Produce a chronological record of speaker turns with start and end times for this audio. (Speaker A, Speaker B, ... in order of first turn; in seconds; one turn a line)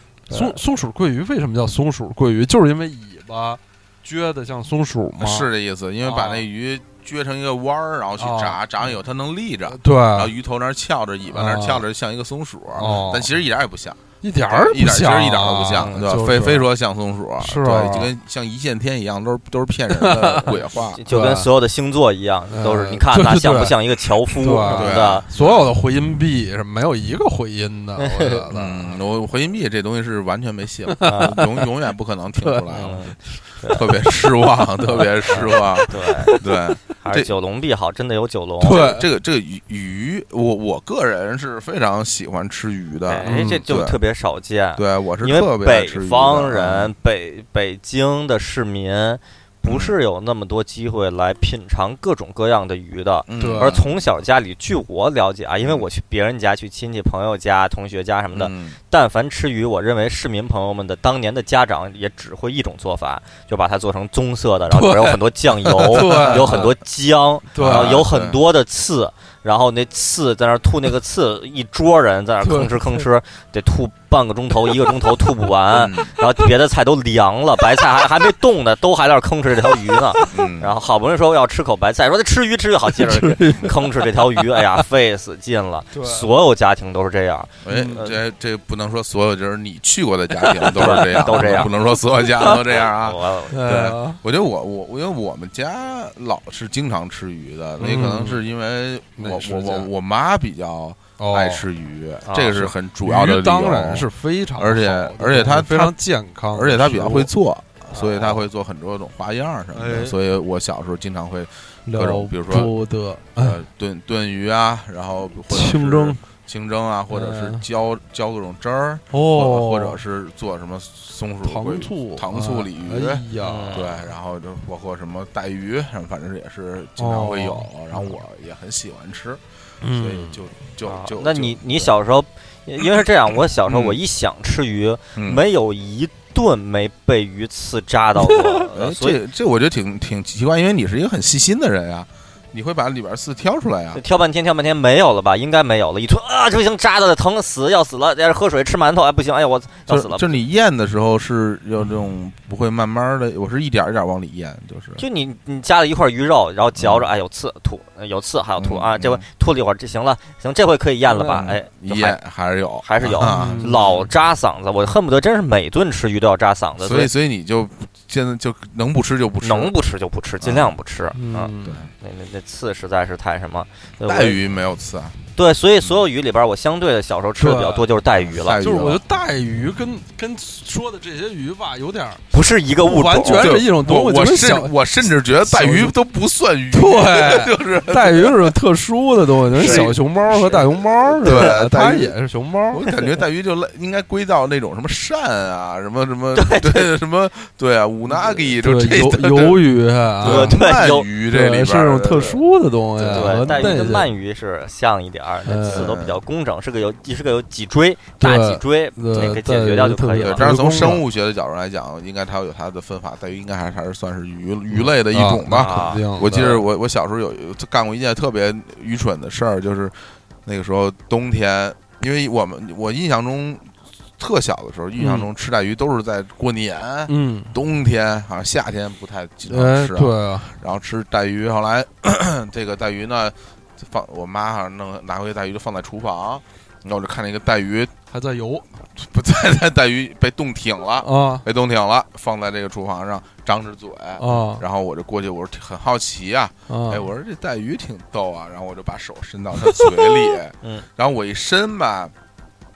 Speaker A: 0.3-0.6
Speaker B: 0.3-5.5
Speaker C: 5.2-21.0
Speaker B: 6.0-6.4
Speaker B: 8.2-8.6
Speaker B: 9.7-10.3
Speaker B: 11.3-11.8
Speaker B: 12.7-13.3
Speaker B: 14.2-16.7
Speaker B: 17.4-18.1
Speaker B: 19.9-20.5
Speaker A: 20.4-25.2
Speaker B: 21.1-21.5
Speaker B: 22.5-23.8
Speaker B: 24.3-28.9
Speaker C: 24.6-25.7
Speaker A: 28.0-28.4
Speaker C: 28.5-33.1
Speaker B: 30.9-31.6
Speaker A: 31.1-31.3
Speaker B: 32.4-32.7
Speaker A: 32.7-33.9
Speaker C: 33.7-37.3
Speaker B: 33.8-34.3
Speaker B: 34.8-36.4
Speaker A: 35.3-36.4
Speaker A: 37.0-38.9
Speaker C: 38.6-44.0
Speaker B: 38.6-39.0
Speaker A: 43.1-88.2
Speaker B: 43.2-43.6
Speaker C: 44.8-46.9
Speaker C: 49.6-50.0
Speaker C: 53.3-53.9
Speaker B: 53.4-53.8
Speaker C: 55.6-55.9
Speaker C: 58.3-58.8
Speaker B: 64.7-65.2
Speaker B: 65.8-66.7
Speaker C: 65.9-66.7
Speaker B: 67.5-68.0
Speaker C: 67.6-68.4
Speaker B: 72.4-73.0
Speaker C: 75.7-76.2
Speaker C: 80.3-80.7
Speaker B: 82.9-84.8
Speaker B: 85.9-86.3
Speaker C: 87.6-106.0
Speaker B: 87.7-88.0
Speaker B: 90.5-91.7
Speaker A: 90.7-91.7
Speaker A: 92.4-93.6
Speaker B: 93.5-94.2
Speaker B: 97.8-98.4
Speaker B: 99.2-99.9
Speaker B: 101.2-101.6
Speaker A: 102.2-102.7
Speaker B: 103.0-107.3
Speaker C: 106.5-112.7
Speaker A: 108.0-108.3
Speaker B: 109.7-110.2
Speaker B: 111.9-113.6
Speaker C: 113.4-131.9
Speaker B: 115.5-116.2
Speaker B: 117.1-117.6
Speaker B: 119.1-120.0
Speaker B: 121.4-123.8
Speaker A: 123.4-124.0
Speaker B: 127.0-128.0
Speaker B: 129.8-130.4
Speaker A: 130.8-139.2
Speaker C: 133.7-134.0
Speaker C: 135.2-135.4
Speaker B: 138.2-138.7
Speaker C: 138.7-144.0
Speaker A: 143.9-150.4
Speaker C: 149.9-155.0
Speaker A: 155.0-162.2
Speaker C: 156.8-157.1
Speaker C: 158.6-159.2
Speaker C: 161.1-164.1
Speaker A: 162.8-167.1
Speaker B: 163.2-163.8
Speaker C: 166.8-169.7
Speaker A: 169.4-174.4
Speaker C: 170.4-170.8
Speaker B: 171.1-171.8
Speaker C: 171.6-171.9
Speaker C: 174.0-175.2
Speaker A: 175.3-178.6
Speaker B: 177.4-177.8
Speaker C: 178.2-179.0
Speaker B: 178.6-182.2
Speaker A: 182.3-183.5
Speaker B: 182.8-184.7
Speaker C: 183.3-188.5
Speaker B: 185.4-185.9
Speaker B: 186.7-192.8
Speaker A: 189.5-189.9
Speaker C: 189.5-192.1
Speaker C: 192.7-199.6
Speaker A: 196.3-196.9
Speaker B: 198.6-200.7
Speaker C: 200.2-202.4
Speaker A: 200.2-201.1
Speaker B: 201.3-204.1
Speaker C: 203.0-203.9
Speaker A: 203.1-210.4
Speaker B: 205.4-205.9
Speaker C: 205.7-206.2
Speaker B: 208.2-211.0
Speaker C: 210.2-237.9
Speaker B: 214.7-216.6
Speaker A: 215.5-216.0
Speaker B: 225.0-225.3
Speaker B: 227.1-227.5
Speaker B: 229.5-230.5
Speaker B: 238.1-238.7
Speaker C: 238.9-252.1
Speaker B: 241.0-241.4
Speaker B: 244.2-244.6
Speaker B: 246.7-247.1